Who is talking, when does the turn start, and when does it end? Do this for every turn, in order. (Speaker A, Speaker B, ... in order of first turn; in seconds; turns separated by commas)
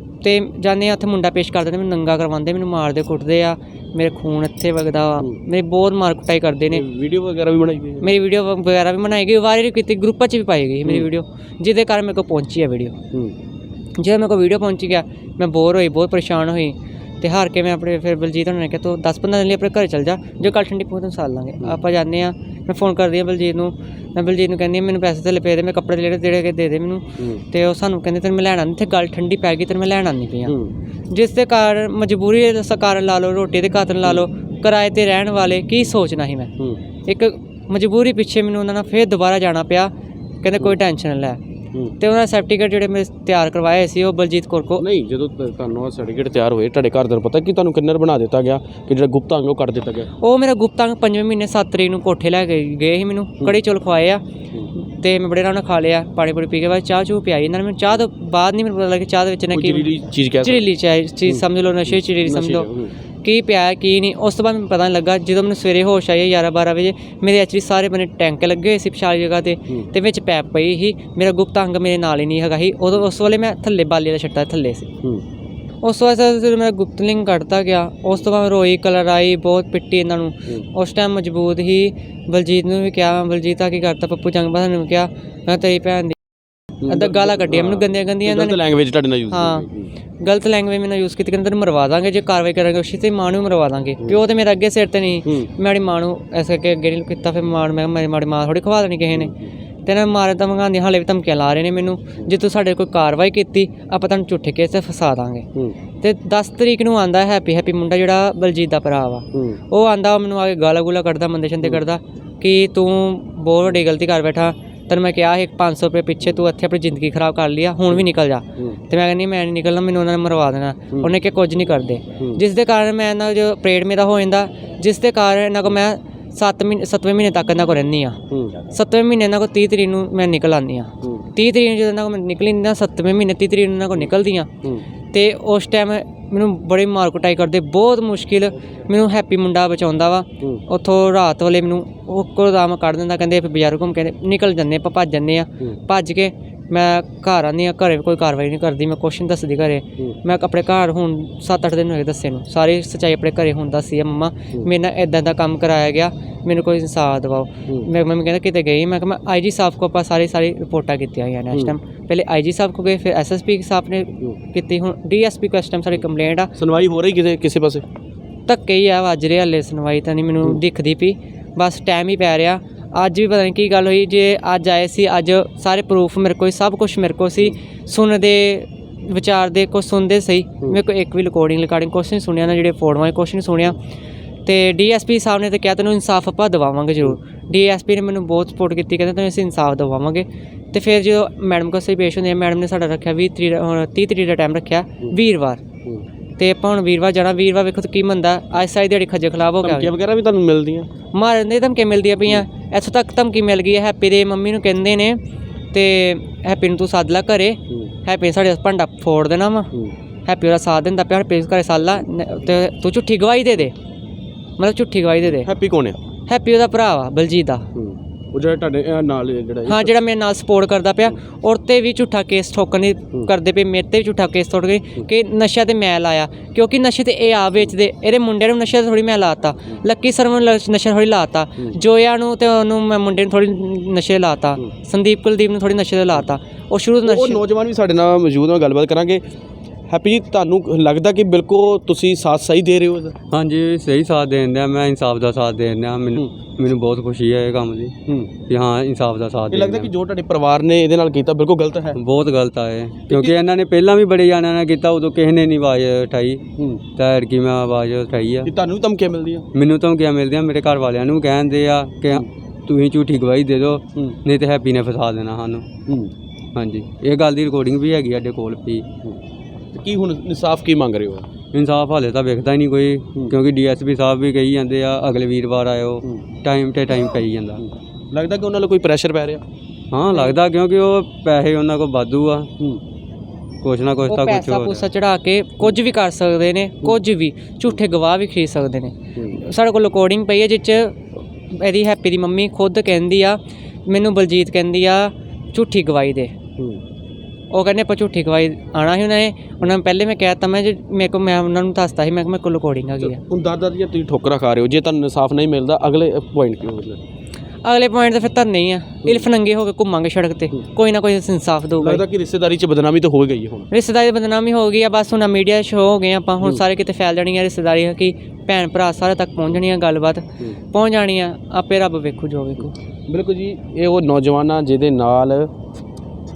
Speaker A: 0.2-6.8, Speaker B: 6.7-8.1, Speaker A: 8.0-12.9, Speaker A: 14.0-30.6, Speaker B: 27.2-27.4, Speaker B: 30.5-30.7, Speaker A: 31.1-36.5, Speaker A: 37.0-41.4, Speaker A: 42.0-44.8, Speaker B: 44.8-50.1, Speaker A: 50.2-54.2, Speaker A: 54.8-59.9, Speaker B: 59.5-60.6, Speaker A: 60.4-62.7, Speaker B: 61.2-62.9, Speaker A: 63.2-74.9, Speaker A: 75.8-86.2, Speaker B: 86.8-89.9, Speaker A: 86.9-88.6, Speaker A: 89.3-89.6, Speaker A: 90.2-99.3, Speaker B: 99.1-99.5, Speaker A: 99.8-105.5, Speaker A: 106.0-134.5, Speaker B: 109.3-109.6, Speaker B: 128.3-128.6, Speaker B: 131.0-131.3, Speaker A: 135.1-166.5, Speaker B: 166.5-167.8, Speaker A: 168.5-183.8, Speaker A: 184.4-195.6, Speaker A: 196.4-199.9, Speaker B: 199.6-200.9, Speaker A: 201.1-205.2, Speaker A: 205.7-209.7, Speaker A: 210.2-213.7, Speaker A: 214.6-215.5, Speaker B: 215.3-216.0, Speaker A: 216.3-217.7, Speaker B: 217.7-219.9, Speaker A: 219.7-237.4, Speaker B: 237.0-239.2, Speaker B: 239.9-243.1, Speaker C: 243.3-247.9, Speaker B: 248.1-248.3, Speaker C: 248.5-249.9, Speaker B: 249.5-252.0, Speaker C: 251.9-256.4, Speaker B: 253.1-253.3, Speaker B: 256.6-256.8, Speaker C: 256.9-258.5, Speaker B: 258.4-259.5, Speaker C: 259.5-265.6, Speaker B: 265.9-266.1, Speaker C: 266.5-268.9, Speaker B: 269.7-271.2, Speaker C: 271.5-277.6, Speaker B: 277.6-279.4, Speaker C: 279.9-282.5, Speaker C: 283.6-284.8, Speaker A: 284.1-291.0, Speaker A: 291.5-296.3, Speaker A: 297.5-303.2, Speaker B: 303.0-307.0, Speaker A: 307.6-312.0, Speaker B: 311.8-313.7, Speaker A: 313.7-322.8, Speaker B: 323.1-325.5